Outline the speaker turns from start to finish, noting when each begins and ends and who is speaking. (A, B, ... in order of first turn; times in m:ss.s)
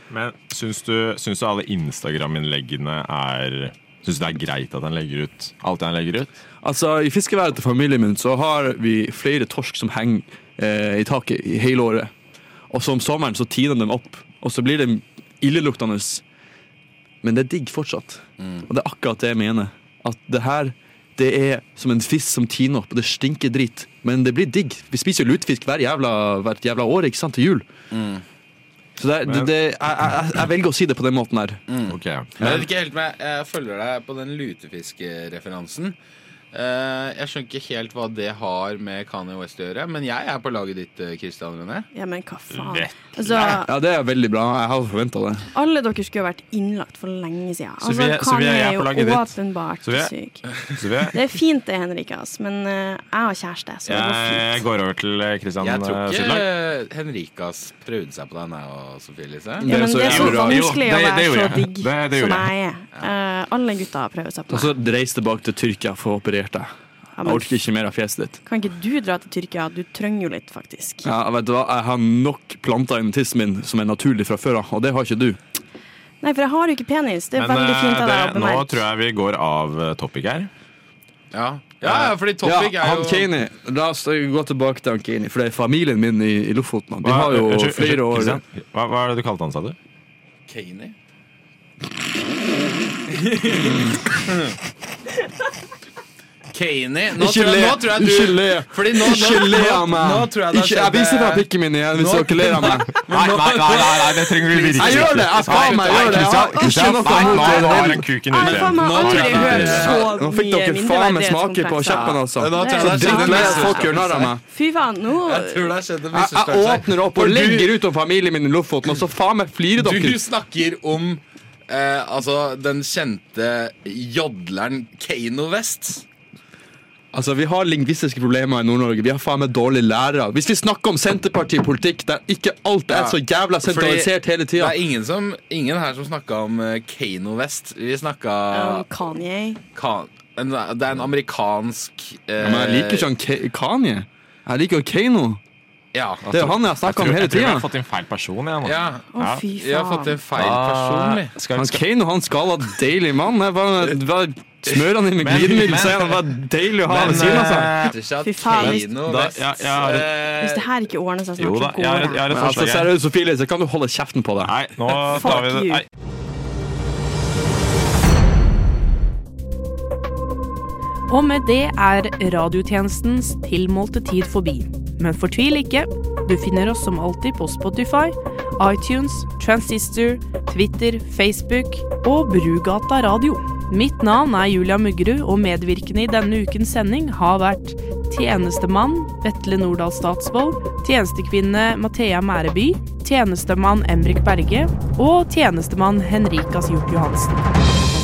0:00.1-0:06.4 A
0:06.6-0:12.1 B
0:12.7-0:16.2 B
0:17.2-0:27.7 B
0:18.4-0:18.6 C
0:27.9-0:28.2 C
0:29.0-0:31.6 B
0:31.7-0:35.9 C
0:31.9-0:32.3 A
0:36.5-0:41.9 C
0:41.9-0:43.7 D
0:42.5-0:43.6 A
0:43.4-0:45.5 B
0:45.5-0:54.7 D
0:47.8-0:51.2 A
0:53.9-0:56.5 A
0:55.6-1:00.1 C
0:59.6-1:00.9 B
0:59.6-1:04.8 D
1:00.1-1:02.5 A
1:04.5-1:08.4 B
1:07.2-1:07.7 D
1:08.4-1:11.1 D
1:11.0-1:15.4 B
1:16.2-1:18.8 D
1:17.3-1:20.5 A
1:21.3-1:23.3 C
1:21.8-1:28.4 B
1:27.0-1:29.8 A
1:30.5-1:30.9 C
1:33.1-1:34.5 C
1:33.7-1:34.0 B
1:36.5-1:50.1 C
1:37.2-1:44.1 B
1:43.1-1:50.0 A
1:44.8-1:48.2 B
1:47.2-1:47.5 D
1:48.2-1:55.8 D
1:49.4-1:54.4 B
1:52.2-1:54.4 C
1:55.1-1:57.8 C
1:56.1-2:00.2 B
1:59.7-2:06.0 C
2:07.1-2:14.8 B
2:12.9-2:18.8 C
2:18.5-2:19.6 D
2:19.7-2:23.1 C
2:22.4-2:25.4 B
2:25.9-2:26.3 C
2:26.3-2:27.7 B
2:26.3-2:29.4 A
2:28.6-2:31.3 C
2:29.1-2:30.2 D
2:30.3-2:31.8 A
2:31.5-2:37.8 B
2:35.2-2:36.3 A
2:36.8-2:40.7 C
2:36.9-2:38.0 A
2:38.2-2:39.0 D
2:38.6-2:40.1 A
2:39.0-2:39.6 B
2:40.3-2:42.3 D
2:41.4-2:42.9 A
2:42.3-2:45.4 B
2:44.4-2:45.8 A
2:44.9-2:45.8 E
2:51.1-3:17.4 E